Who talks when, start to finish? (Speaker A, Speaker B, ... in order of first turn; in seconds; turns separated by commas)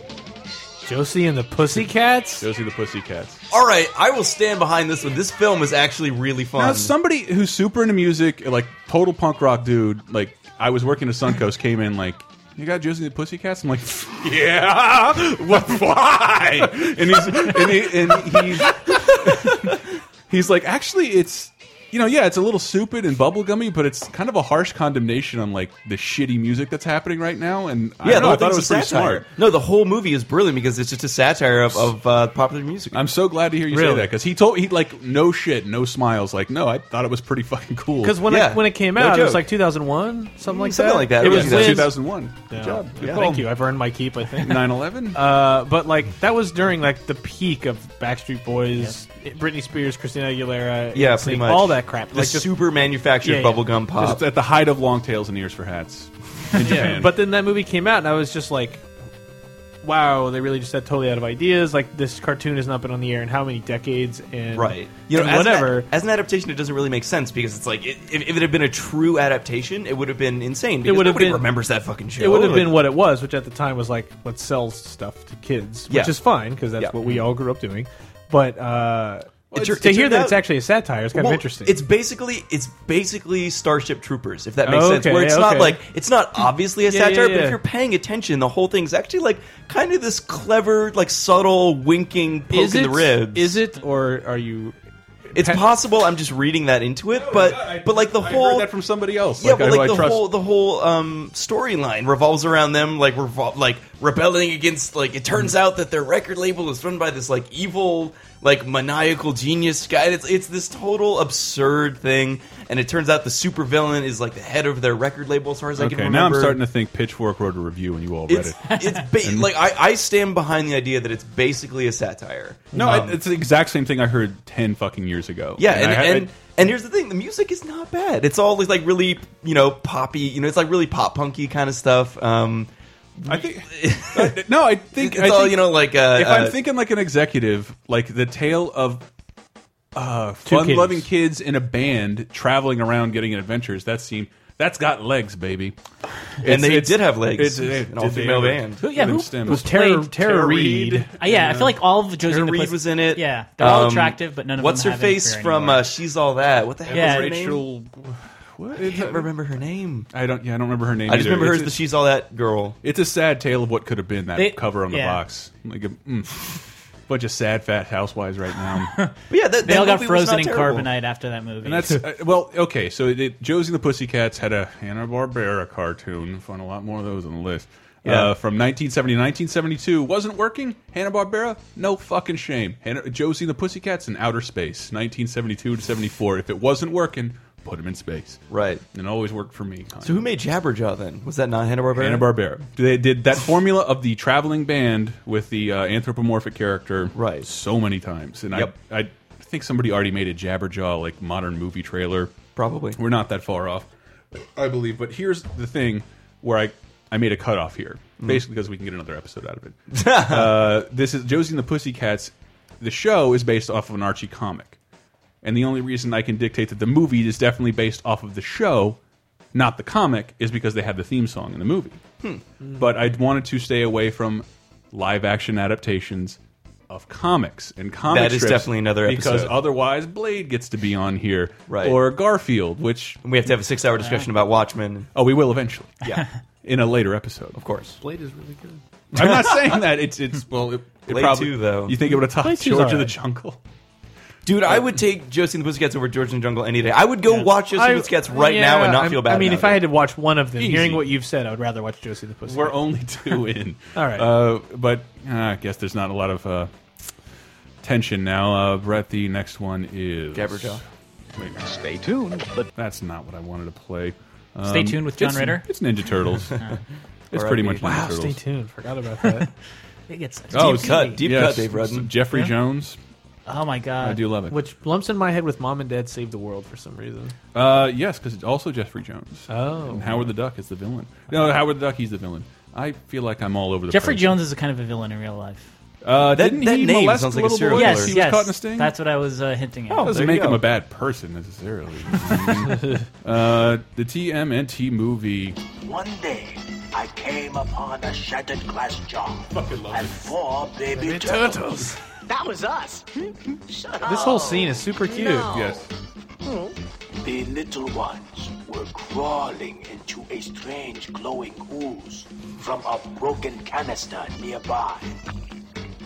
Speaker A: 0.8-2.5, Speaker B: 1.7-3.4, Speaker C: 3.5-6.9, Speaker B: 6.5-29.2, Speaker C: 28.0-33.0, Speaker B: 32.9-38.3, Speaker A: 33.7-34.1, Speaker A: 38.0-52.5, Speaker C: 38.2-39.5, Speaker C: 40.4-42.0, Speaker B: 41.2-43.5, Speaker C: 43.0-43.2, Speaker B: 44.4-45.2, Speaker C: 50.9-54.2, Speaker A: 53.2-53.6, Speaker B: 54.0-57.2, Speaker A: 56.5-58.8, Speaker A: 59.8-65.9, Speaker C: 64.5-72.8, Speaker A: 70.8-71.5, Speaker A: 72.2-81.8, Speaker C: 75.9-76.2, Speaker C: 79.5-80.4, Speaker C: 81.1-93.6, Speaker A: 84.6-85.8, Speaker A: 86.8-87.6, Speaker A: 92.5-94.8, Speaker A: 95.3-95.6, Speaker C: 95.3-98.7, Speaker B: 97.1-100.2, Speaker C: 99.4-116.6, Speaker B: 115.8-119.5, Speaker C: 118.3-123.2, Speaker B: 122.7-126.3, Speaker C: 125.6-134.4, Speaker B: 133.3-139.1, Speaker C: 134.9-136.6, Speaker B: 139.9-145.8, Speaker A: 140.4-141.1, Speaker B: 146.4-151.8, Speaker C: 146.4-148.8, Speaker D: 148.8-150.1, Speaker A: 149.4-151.1, Speaker D: 151.2-155.8, Speaker C: 152.2-157.6, Speaker B: 156.8-159.3, Speaker D: 156.9-157.5, Speaker C: 158.8-160.1, Speaker B: 160.1-161.8, Speaker C: 161.1-162.8, Speaker B: 162.8-169.0, Speaker D: 164.3-165.2, Speaker D: 168.9-172.0, Speaker C: 169.3-170.9, Speaker B: 171.6-190.2, Speaker C: 178.0-178.3, Speaker C: 188.5-188.8, Speaker C: 190.0-192.3, Speaker B: 191.9-202.4, Speaker C: 197.1-197.5, Speaker C: 202.5-203.0, Speaker B: 202.9-203.9, Speaker B: 204.5-214.8, Speaker C: 209.9-210.7, Speaker B: 215.4-219.0, Speaker B: 219.5-222.0, Speaker B: 222.8-226.4, Speaker B: 226.9-233.2, Speaker C: 228.1-229.6, Speaker C: 231.7-232.0, Speaker C: 233.2-235.1, Speaker D: 234.0-234.2, Speaker B: 235.1-236.0, Speaker B: 236.6-237.6, Speaker C: 237.5-238.0, Speaker A: 238.0-238.8, Speaker B: 239.1-243.6, Speaker C: 239.2-239.8, Speaker C: 241.1-242.0, Speaker A: 242.1-243.1, Speaker C: 244.4-249.9, Speaker A: 247.3-252.8, Speaker B: 250.6-251.1, Speaker B: 252.5-256.7, Speaker A: 253.9-254.3, Speaker B: 257.8-260.8, Speaker C: 260.3-260.8, Speaker B: 261.4-261.6, Speaker B: 262.8-266.6, Speaker D: 264.6-265.7, Speaker B: 267.3-268.4, Speaker C: 267.3-268.0, Speaker A: 267.8-269.5, Speaker D: 270.1-271.2, Speaker C: 270.5-272.1, Speaker B: 270.5-273.0, Speaker D: 273.4-274.2, Speaker B: 274.0-274.6, Speaker A: 274.5-277.3, Speaker B: 277.5-284.4, Speaker A: 279.5-280.3, Speaker D: 283.9-285.7, Speaker B: 286.0-288.9, Speaker C: 286.3-288.2, Speaker D: 287.7-290.2, Speaker C: 289.9-290.7, Speaker B: 290.0-295.6, Speaker E: 295.8-303.1, Speaker B: 299.5-300.3, Speaker A: 300.9-302.0, Speaker E: 303.7-305.8, Speaker A: 304.0-305.5, Speaker B: 305.4-305.9, Speaker E: 306.4-306.7, Speaker E: 307.2-315.2